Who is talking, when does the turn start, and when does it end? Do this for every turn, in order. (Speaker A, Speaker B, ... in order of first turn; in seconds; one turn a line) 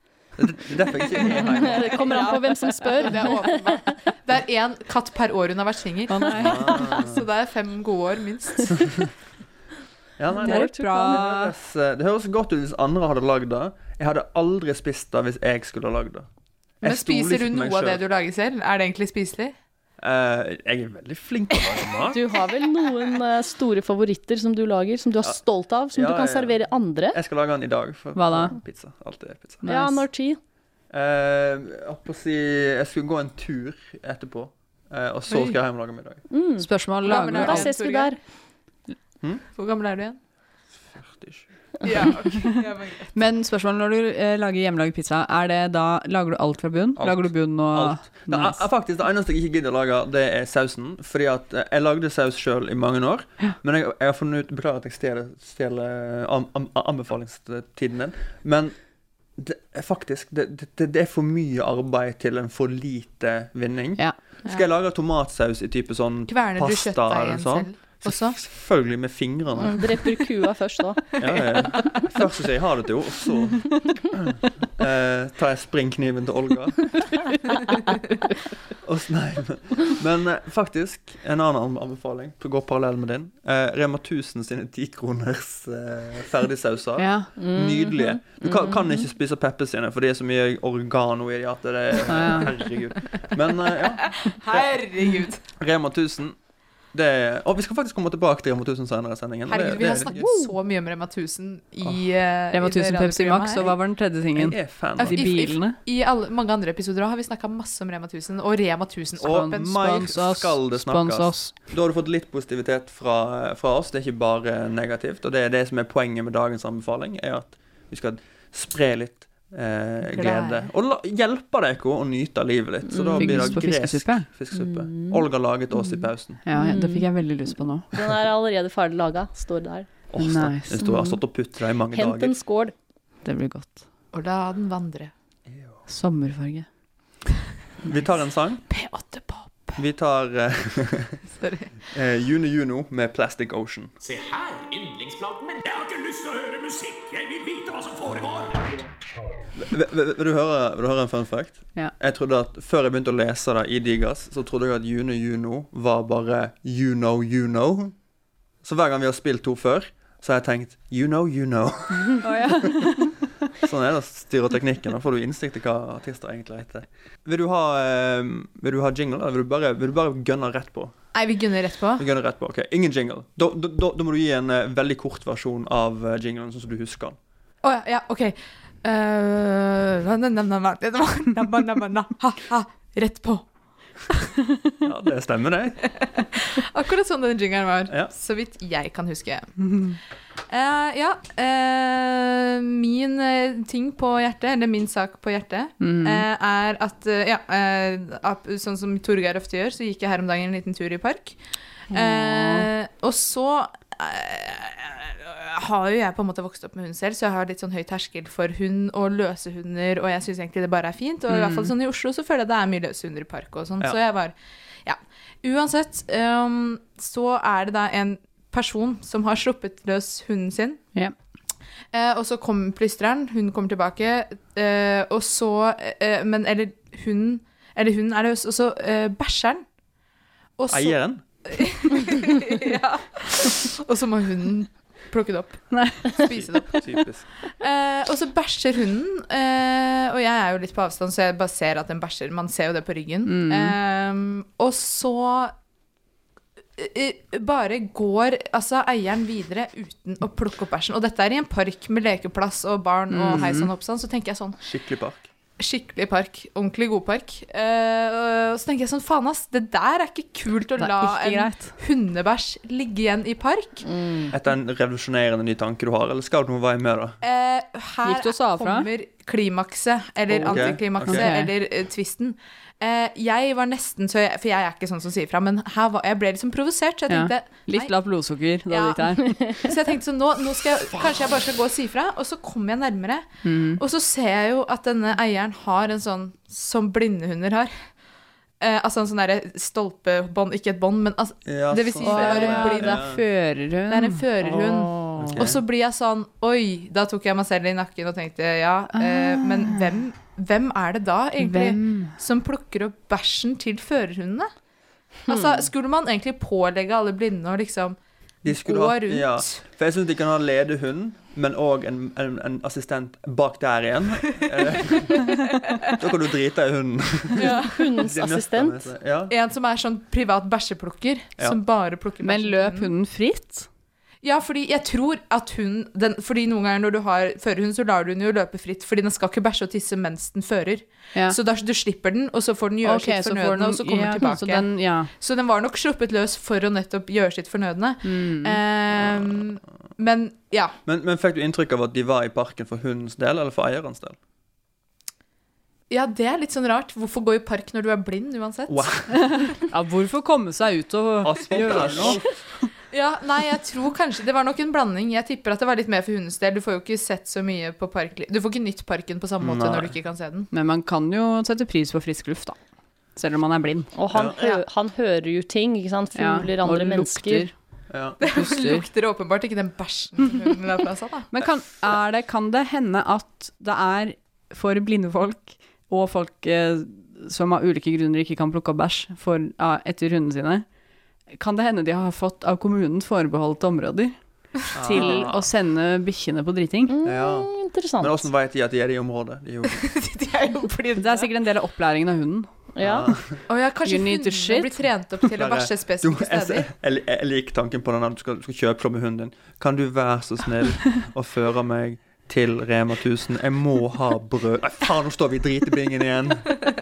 Speaker A: 0.4-2.1
Speaker B: 1.3-9.1
Speaker C: 1.6-3.6
Speaker D: 6.1-6.9
Speaker A: 6.3-7.3
Speaker A: 10.2-16.3
Speaker C: 10.4-11.3
Speaker D: 10.4-11.5
Speaker A: 16.8-18.0
Speaker B: 16.8-19.5
Speaker A: 20.0-22.2
Speaker C: 22.1-27.2
Speaker A: 25.9-26.6
Speaker A: 27.1-29.6
Speaker D: 28.1-28.6
Speaker D: 29.6-30.0
Speaker C: 29.7-30.4
Speaker A: 30.9-36.2
Speaker B: 35.3-35.6
Speaker C: 36.3-38.2
Speaker D: 36.6-37.7
Speaker B: 37.0-38.1
Speaker B: 39.5-40.2
Speaker A: 40.9-41.5
Speaker B: 41.8-43.1
Speaker D: 43.1-48.6
Speaker A: 47.0-58.8
Speaker A: 59.4-69.9
Speaker B: 66.3-68.4
Speaker C: 69.6-71.0
Speaker A: 71.2-77.0
Speaker A: 78.8-94.8
Speaker D: 87.0-87.3
Speaker C: 87.4-89.0
Speaker D: 92.1-92.5
Speaker B: 94.2-95.4
Speaker A: 95.6-96.4
Speaker A: 96.9-100.3
Speaker B: 99.5-103.7
Speaker D: 100.0-100.5
Speaker D: 102.5-105.8
Speaker A: 104.4-105.2
Speaker B: 105.0-109.8
Speaker A: 109.2-126.4
Speaker D: 109.2-111.5
Speaker B: 120.1-120.7
Speaker C: 122.9-123.5
Speaker D: 123.2-124.3
Speaker C: 124.5-125.2
Speaker D: 126.5-127.9
Speaker C: 126.5-127.1
Speaker C: 127.9-129.9
Speaker A: 130.1-132.4
Speaker D: 130.2-130.8
Speaker C: 130.8-131.2
Speaker C: 131.9-132.7
Speaker D: 133.2-133.8
Speaker B: 134.1-135.1
Speaker A: 135.5-135.8
Speaker D: 135.9-136.7
Speaker A: 137.8-138.7
Speaker B: 138.7-139.8
Speaker A: 139.8-141.2
Speaker B: 141.4-141.7
Speaker A: 141.9-143.9
Speaker E: 144.0-148.8
Speaker A: 149.6-157.9
Speaker A: 158.6-162.7
Speaker D: 162.2-163.2
Speaker A: 163.6-170.9
Speaker B: 171.1-172.1
Speaker A: 172.0-177.2
Speaker B: 177.6-183.4
Speaker A: 184.8-185.8
Speaker B: 186.0-189.5
Speaker B: 190.5-201.4
Speaker D: 195.8-196.3
Speaker B: 201.9-220.8
Speaker D: 201.9-202.7
Speaker D: 211.3-211.7
Speaker B: 221.9-229.6
Speaker B: 230.6-236.9
Speaker A: 230.7-231.2
Speaker D: 235.7-236.2
Speaker A: 236.3-237.3
Speaker B: 237.6-245.5
Speaker D: 243.3-243.8
Speaker B: 246.8-254.6
Speaker D: 253.1-253.7
Speaker A: 254.6-255.3
Speaker B: 255.6-263.9
Speaker D: 260.8-261.8
Speaker C: 263.9-264.3
Speaker A: 264.3-267.2
Speaker B: 267.2-277.9
Speaker D: 268.0-268.9
Speaker A: 270.3-271.3
Speaker D: 270.4-271.5
Speaker D: 277.1-279.4
Speaker B: 278.7-287.7
Speaker D: 283.4-283.8
Speaker B: 288.6-293.1
Speaker A: 291.4-293.2
Speaker D: 292.0-295.4
Speaker B: 293.9-304.5
Speaker A: 295.2-295.6
Speaker D: 298.9-300.0
Speaker D: 301.4-302.1
Speaker B: 305.3-309.6
Speaker A: 308.4-315.4
Speaker B: 314.9-315.4
Speaker A: 315.9-319.3
Speaker B: 317.4-317.8
Speaker C: 317.4-318.9
Speaker B: 319.3-322.9
Speaker D: 322.2-323.7
Speaker B: 324.2-340.8
Speaker D: 332.8-335.1
Speaker D: 338.0-338.6
Speaker A: 339.0-339.5
Speaker A: 340.9-344.2
Speaker B: 345.9-348.9
Speaker A: 348.7-349.2
Speaker D: 349.3-352.2
Speaker A: 351.2-352.4
Speaker B: 352.9-360.5
Speaker A: 359.4-359.9
Speaker D: 360.5-362.6
Speaker D: 363.2-363.9
Speaker C: 364.0-367.5
Speaker A: 364.1-364.6
Speaker D: 366.1-367.5
Speaker A: 367.9-368.2
Speaker B: 368.2-371.3
Speaker D: 368.2-368.9
Speaker D: 371.3-380.6
Speaker D: 381.3-384.1
Speaker A: 384.8-385.5
Speaker D: 384.8-386.9
Speaker B: 385.0-385.2
Speaker C: 386.9-388.3
Speaker A: 387.1-389.9
Speaker B: 389.7-391.3
Speaker D: 391.0-392.5
Speaker C: 392.8-393.1
Speaker A: 392.8-393.4
Speaker B: 393.5-396.7
Speaker D: 393.8-394.9
Speaker A: 395.3-406.5